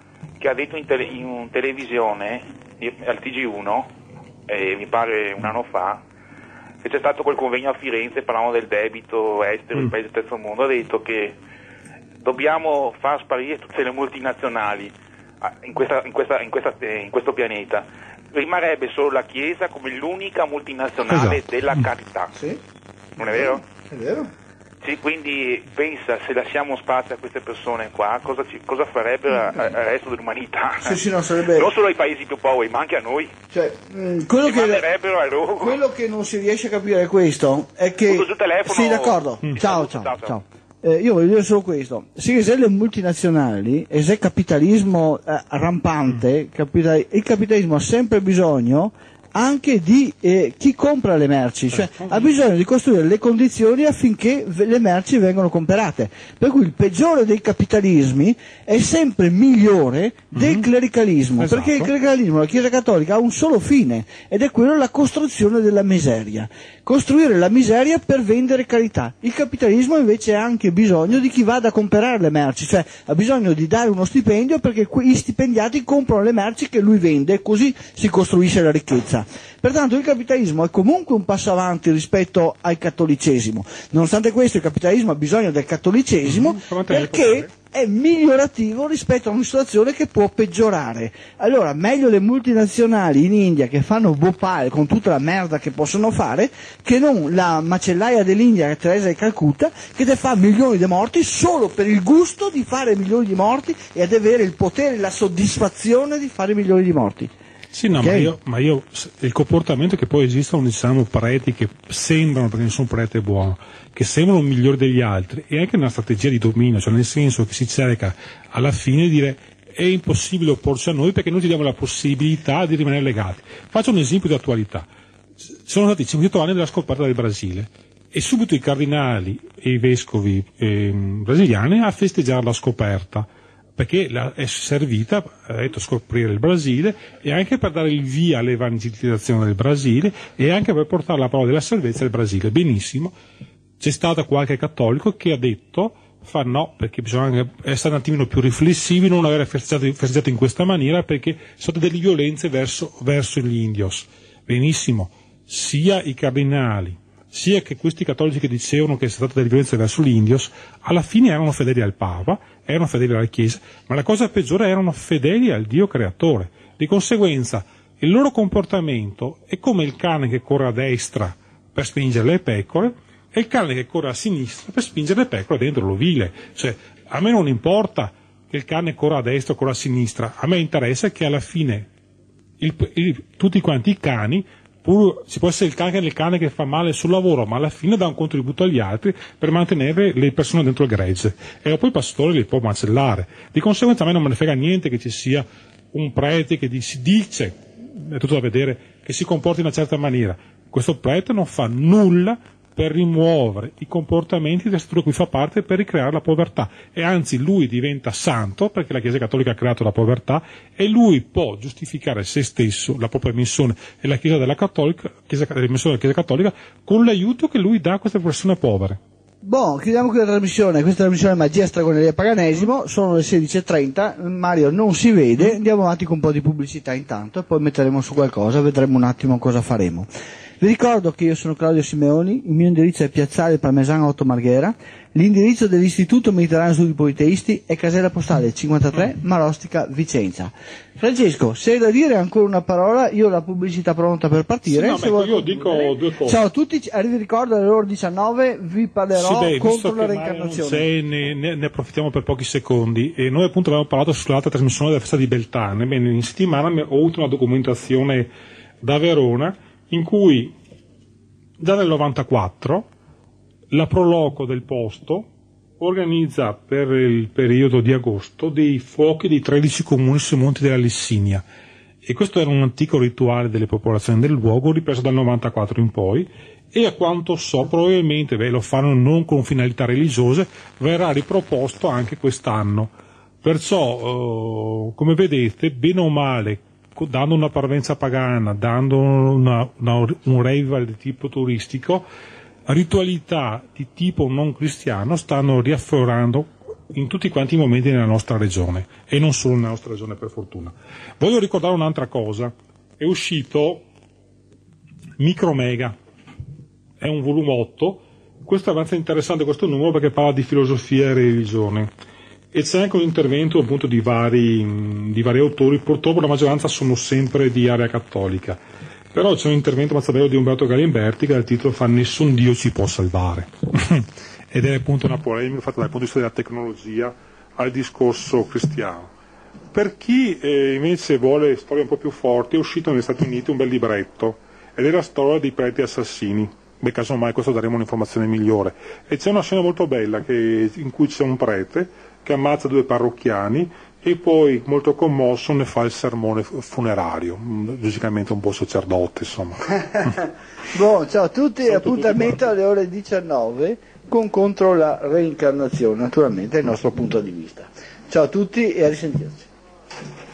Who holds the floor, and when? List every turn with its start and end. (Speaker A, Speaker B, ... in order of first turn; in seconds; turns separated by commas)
Speaker A: 0.4-3.9, Speaker A: 4.5-6.0, Speaker A: 6.8-11.4, Speaker A: 12.2-22.3, Speaker B: 21.1-21.4, Speaker C: 22.3-22.6, Speaker A: 23.2-23.6, Speaker C: 23.2-24.3, Speaker A: 24.8-33.3, Speaker C: 30.8-31.7, Speaker C: 33.5-34.9, Speaker A: 34.4-35.8, Speaker C: 35.6-107.3, Speaker A: 38.1-40.4, Speaker B: 51.7-52.3, Speaker B: 60.4-60.7, Speaker B: 61.4-61.9, Speaker B: 86.2-87.5, Speaker B: 107.7-124.9, Speaker C: 108.0-108.3, Speaker B: 125.5-143.1, Speaker B: 143.8-181.9, Speaker B: 182.6-219.0, Speaker C: 219.4-230.1, Speaker C: 230.6-250.9, Speaker B: 244.7-246.4, Speaker B: 249.2-258.3, Speaker B: 258.8-260.6, Speaker B: 261.6-262.9, Speaker B: 263.7-265.3, Speaker B: 265.8-271.4, Speaker B: 272.0-292.1, Speaker B: 292.7-303.9, Speaker B: 305.2-305.9, Speaker B: 307.0-311.9, Speaker B: 312.5-318.6, Speaker B: 319.1-329.1, Speaker B: 329.7-350.1, Speaker C: 349.8-359.5, Speaker B: 351.7-352.4